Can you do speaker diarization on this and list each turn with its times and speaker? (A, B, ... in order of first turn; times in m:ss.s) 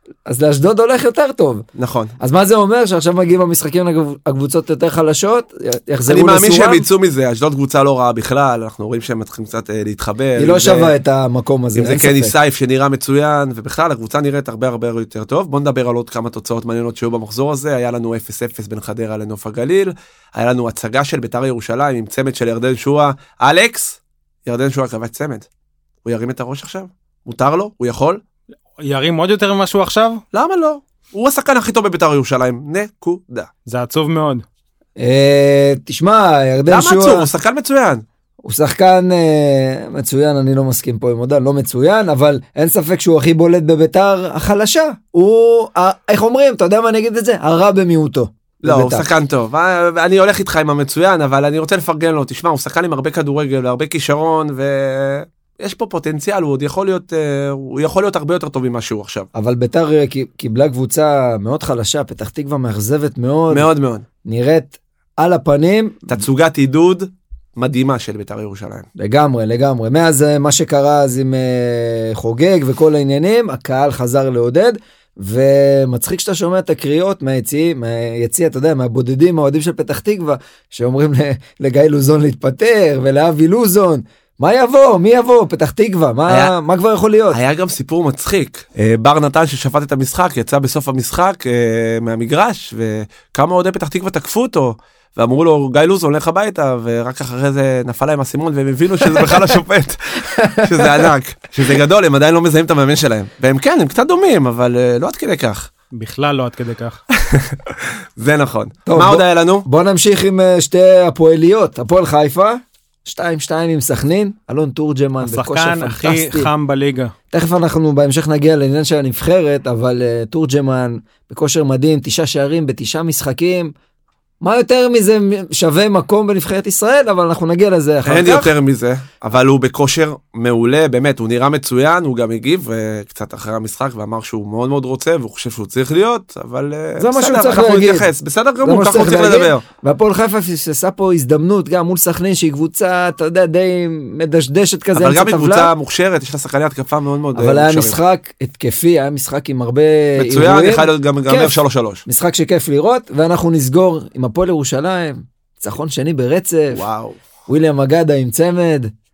0:00.2-0:01.6 A
0:01.7-0:02.2 B
0:02.2-0:06.8 A
0:06.1-0:10.9 B
0:10.4-0:12.3 A
0:11.7-0:25.5 B
0:26.0-0:28.2 B
0:28.8-0:30.2 C
0:30.3-0:33.5 B
0:33.6-0:34.4 C
0:35.0-0:37.3 A
0:36.7-0:38.0 B
0:38.4-0:49.1 A
0:48.6-0:59.3 B
0:59.3-1:03.7 A
1:03.5-1:04.0 B
1:04.2-1:06.1 A
1:06.1-1:08.9 B
1:09.0-1:27.4 A
1:26.3-1:26.5 B
1:27.3-1:45.7 B
1:40.3-1:41.1 A
1:45.9-1:47.0 C
1:47.1-1:49.7 B
1:48.8-1:56.5 A
1:55.2-1:57.1 C
1:57.3-2:03.7 A
2:04.4-2:08.5 A
2:08.0-2:19.6 B
2:17.0-2:18.1 A
2:18.6-2:25.7 A
2:24.9-2:28.0 B
2:27.3-2:36.8 A
2:30.2-2:32.0 B
2:36.7-2:37.2 B
2:37.5-2:38.9 A